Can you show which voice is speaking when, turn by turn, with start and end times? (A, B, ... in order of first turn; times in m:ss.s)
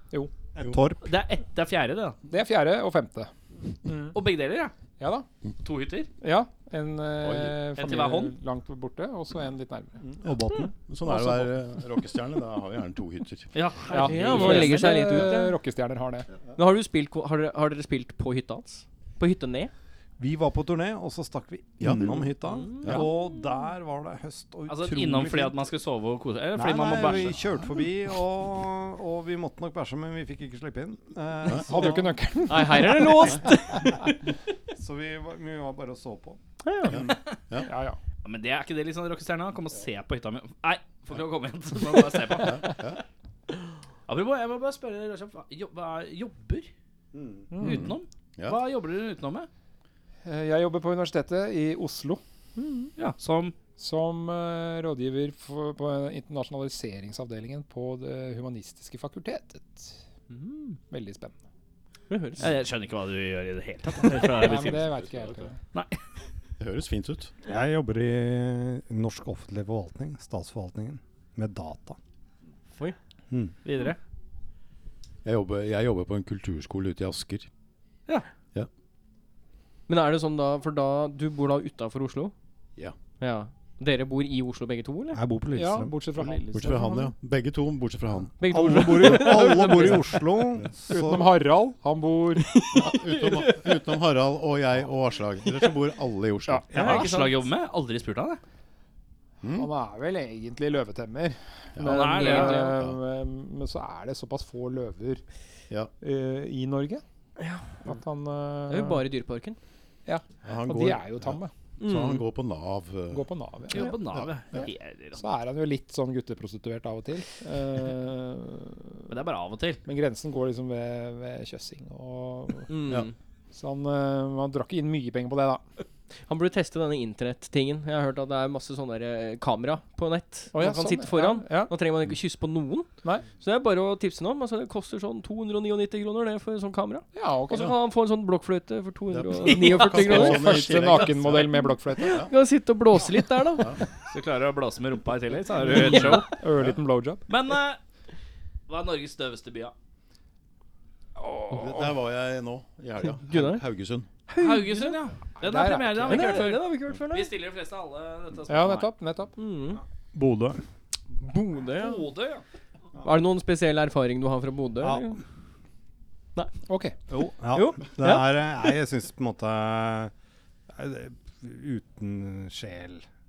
0:00.6-0:01.1 A
0:01.0-0:02.2 B
0:02.3-0:03.3 C
0:03.8-0:04.2 C
0:04.1-0:04.7 B
0:05.0-0:05.3 C
0:05.6-0:06.1 B
0:06.2-0:10.0 C
0:07.2-0:07.6 D
0:07.8-0:08.3 B
0:10.0-0:10.7 A
0:10.9-0:13.5 D
0:13.5-0:15.2 B
0:13.9-0:16.3 C
0:14.0-0:15.6 E
0:16.6-0:19.7 E
0:20.2-0:25.6 A
0:21.8-0:22.3 D
0:22.6-0:23.1 E
0:22.8-0:23.1 D
0:24.7-0:27.3 B
0:26.5-0:32.2 A
0:31.6-0:34.1 C
0:32.5-0:33.9 E
0:34.7-0:36.4 A
0:36.6-0:37.0 E
0:36.9-0:37.7 D
0:37.6-0:38.0 C
0:38.2-0:42.8 B
0:42.3-0:43.0 D
0:44.1-0:46.7 B
0:47.1-0:47.5 A
0:47.5-0:47.9 C
0:47.6-0:49.5 B
0:47.6-0:48.6 D
0:50.2-0:52.9 C
0:52.6-0:52.9 E
0:53.0-0:53.5 B
0:53.8-1:00.0 C
1:00.3-1:00.8 E
1:00.7-1:01.4 C
1:02.1-1:02.5 E
1:02.4-1:04.8 B
1:04.1-1:05.6 C
1:04.7-1:05.5 D
1:05.7-1:06.0 B
1:06.6-1:07.3 D
1:07.4-1:12.0 A
1:13.3-1:13.5 A
1:13.6-1:14.0 B
1:15.2-1:17.5 D
1:19.9-1:22.3 E
1:23.2-1:25.2 E
1:25.1-1:26.3 A
1:25.5-1:27.1 C
1:26.5-1:28.4 D
1:28.4-1:30.3 E
1:28.5-1:31.3 A
1:30.9-1:32.6 C
1:32.4-1:33.9 E
1:32.7-1:37.0 D
1:36.7-1:37.4 E
1:36.7-1:38.4 B
1:36.8-1:37.1 A
1:39.4-1:39.7 D
1:39.5-1:45.2 C
1:41.8-1:43.0 D
1:41.8-1:42.7 B
1:42.2-1:42.8 E
1:46.0-1:47.0 C
1:47.4-1:47.9 E
1:47.8-1:49.1 C
1:48.7-1:49.6 E
1:50.0-1:51.5 C
1:50.4-1:54.7 D
1:51.8-1:52.2 E
1:53.1-1:54.0 C
1:53.7-1:55.2 B
1:55.1-1:59.0 C
1:59.1-1:59.8 B
1:59.8-2:02.9 C
2:02.7-2:03.1 E
2:03.5-2:05.6 C
2:06.2-2:20.6 E
2:10.5-2:11.7 C
2:17.1-2:17.7 C
2:19.1-2:22.3 D
2:19.5-2:20.0 B
2:19.7-2:22.2 C
2:22.0-2:23.8 E
2:23.6-2:23.8 D
2:24.1-2:26.3 B
2:25.7-2:26.3 E
2:25.7-2:27.2 C
2:27.3-2:27.8 B
2:28.7-2:29.7 B
2:31.2-2:31.9 C
2:31.5-2:34.1 D
2:33.2-2:33.6 E
2:34.3-2:35.0 E
2:34.4-2:38.9 B
2:35.4-2:36.5 C
2:36.1-2:37.3 E
2:38.5-2:39.3 C
2:39.4-2:39.8 E
2:40.1-2:40.6 A
2:41.2-2:42.1 E
2:41.8-2:42.4 B
2:43.0-2:45.2 E
2:44.8-2:45.1 A
2:46.7-2:47.0 C
2:47.1-2:50.1 A
2:47.5-2:48.3 E
2:50.7-2:53.0 A